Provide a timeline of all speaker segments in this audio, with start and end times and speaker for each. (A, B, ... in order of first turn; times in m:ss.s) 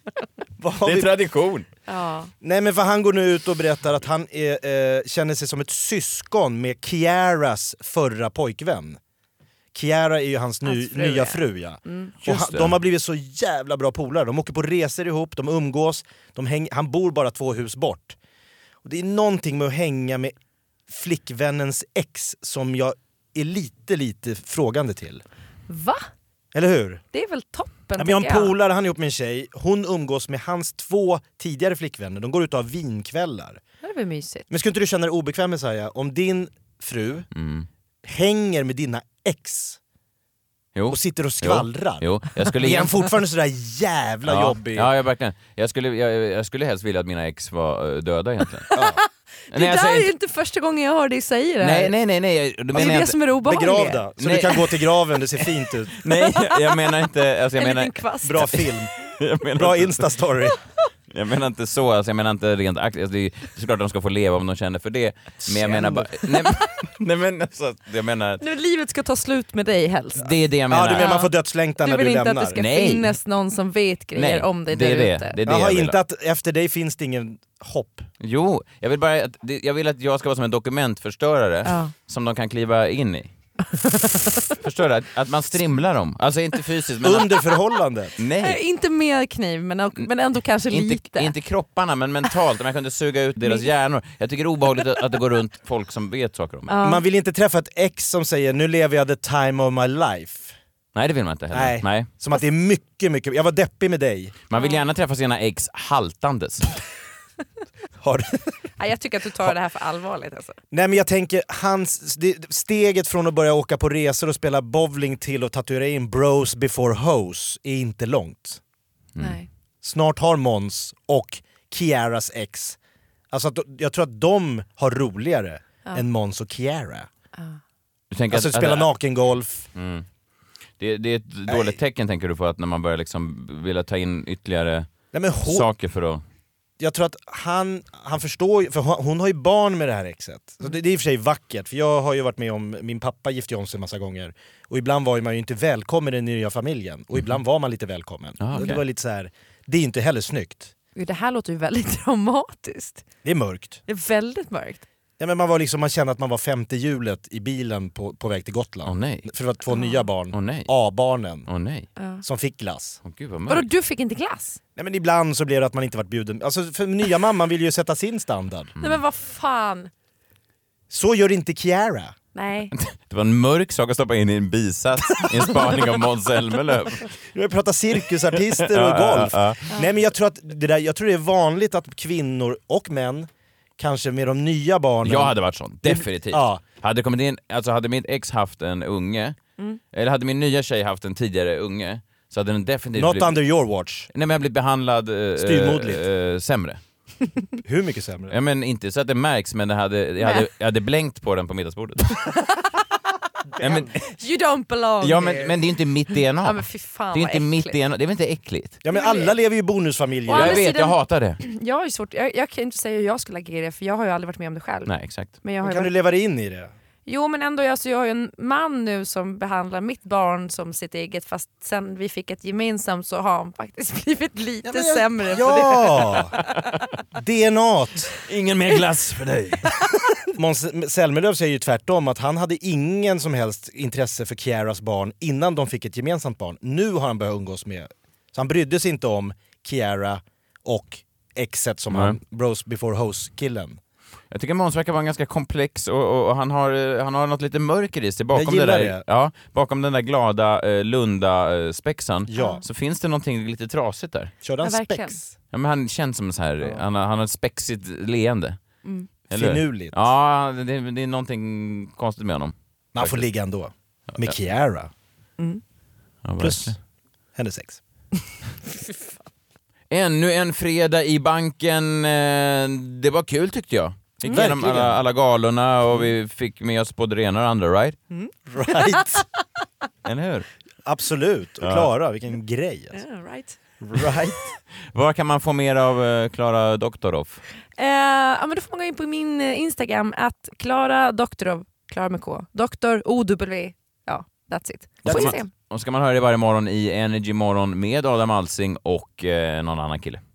0:00.6-0:01.1 A
0:00.8-0:01.7 B
0:01.9-0:02.3 C
0:02.4-0:09.0 A
0:09.7-0:18.2 A
0:10.6-0:12.1 C
0:12.2-0:12.8 B
0:18.8-0:20.3 A
0:20.9-0:25.2 A
0:25.7-0:26.1 C
0:26.5-0:27.0 A
0:27.1-0:28.5 C
0:28.0-0:33.6 A
0:33.8-0:34.5 C
0:34.5-0:37.3 A
0:37.3-0:37.7 B
0:38.0-0:39.8 A
0:40.8-0:43.0 B
0:40.9-0:44.9 A
0:44.3-0:48.7 B
0:48.7-0:51.9 C
0:48.8-0:49.0 A
0:49.5-0:50.1 B
0:51.6-0:53.2 B
0:52.8-0:54.0 C
0:52.8-0:56.0 A
0:54.2-0:55.2 B
0:56.0-1:00.1 B
0:56.2-0:56.7 C
0:57.6-0:58.5 C
0:58.2-0:58.9 A
0:59.6-1:00.6 A
1:01.1-1:08.4 B
1:05.4-1:06.1 A
1:08.4-1:10.3 C
1:10.2-1:11.2 B
1:10.7-1:12.6 A
1:11.0-1:15.4 C
1:12.6-1:13.2 B
1:14.2-1:16.0 B
1:15.5-1:18.1 A
1:18.2-1:23.3 B
1:21.7-1:21.9 C
1:23.8-1:24.2 C
1:24.5-1:27.3 B
1:27.0-1:28.1 A
1:28.2-1:28.6 B
1:28.4-1:31.3 C
1:30.7-1:36.7 B
1:36.7-1:37.0 C
1:36.8-1:40.6 A
1:41.0-1:42.1 B
1:41.5-1:44.4 A
1:44.5-1:46.8 B
1:48.0-1:48.4 A
1:48.8-1:50.6 C
1:50.7-1:58.6 A
1:59.2-1:59.5 C
1:59.8-2:02.8 A
2:03.3-2:07.1 A
2:08.1-2:08.9 B
2:08.3-2:09.7 A
2:09.8-2:10.0 B
2:10.8-2:14.9 B
2:11.5-2:11.8 A
2:15.1-2:15.7 A
2:15.4-2:16.2 B
2:16.8-2:30.7 A
2:28.4-2:28.8 B
2:31.0-2:33.0 C
2:33.2-2:33.8 A
2:33.9-2:34.8 C
2:35.2-2:41.5 A
2:38.8-2:39.3 B
2:39.7-2:40.1 C
2:40.3-2:40.7 B
2:41.5-2:41.9 B
2:42.0-2:42.2 C
2:42.2-2:43.0 A
2:43.0-2:43.7 B
2:43.5-2:44.6 C
2:44.8-2:48.7 A
2:48.8-2:49.9 C
2:50.9-2:52.2 A
2:52.3-2:52.7 C
2:52.7-2:57.1 B
2:55.3-2:55.7 A
2:57.3-3:06.6 A
2:58.5-2:59.6 B
3:05.0-3:09.4 B
3:09.9-3:13.4 B
3:13.0-3:14.1 A
3:14.1-3:16.8 B
3:15.4-3:16.0 A
3:17.6-3:18.4 A
3:18.3-3:22.3 B
3:20.2-3:20.5 C
3:22.3-3:22.7 C
3:23.6-3:23.9 A
3:23.6-3:23.9 B
3:24.2-3:25.6 C
3:25.0-3:28.8 B
3:26.4-3:27.8 C
3:28.8-3:30.6 A
3:28.9-3:29.4 C
3:30.3-3:35.9 C
3:30.3-3:31.4 B
3:34.9-3:35.3 B
3:35.6-3:36.7 A
3:37.1-3:46.2 C
3:44.6-3:46.4 A
3:47.2-3:48.1 A
3:48.2-3:49.7 B
3:50.3-4:03.8 A
4:01.9-4:02.2 B
4:04.3-4:14.3 B
4:08.3-4:09.0 A
4:12.3-4:12.6 A
4:12.3-4:12.6 C
4:14.4-4:15.3 A
4:14.6-4:15.2 C
4:15.5-4:18.6 B
4:19.3-4:23.3 B
4:19.3-4:20.0 A
4:23.0-4:24.9 A
4:26.2-4:26.8 B
4:26.4-4:26.8 A
4:27.4-4:27.8 A
4:29.9-4:38.0 B
4:34.2-4:35.0 A
4:38.1-4:39.2 C
4:38.5-4:39.2 A
4:40.0-4:40.5 B
4:40.8-4:43.0 A
4:41.6-4:41.9 B
4:42.9-4:43.6 C
4:43.8-4:44.6 A
4:44.9-4:47.4 B
4:47.8-4:55.5 C
4:55.0-4:55.4 A
4:55.1-5:00.2 B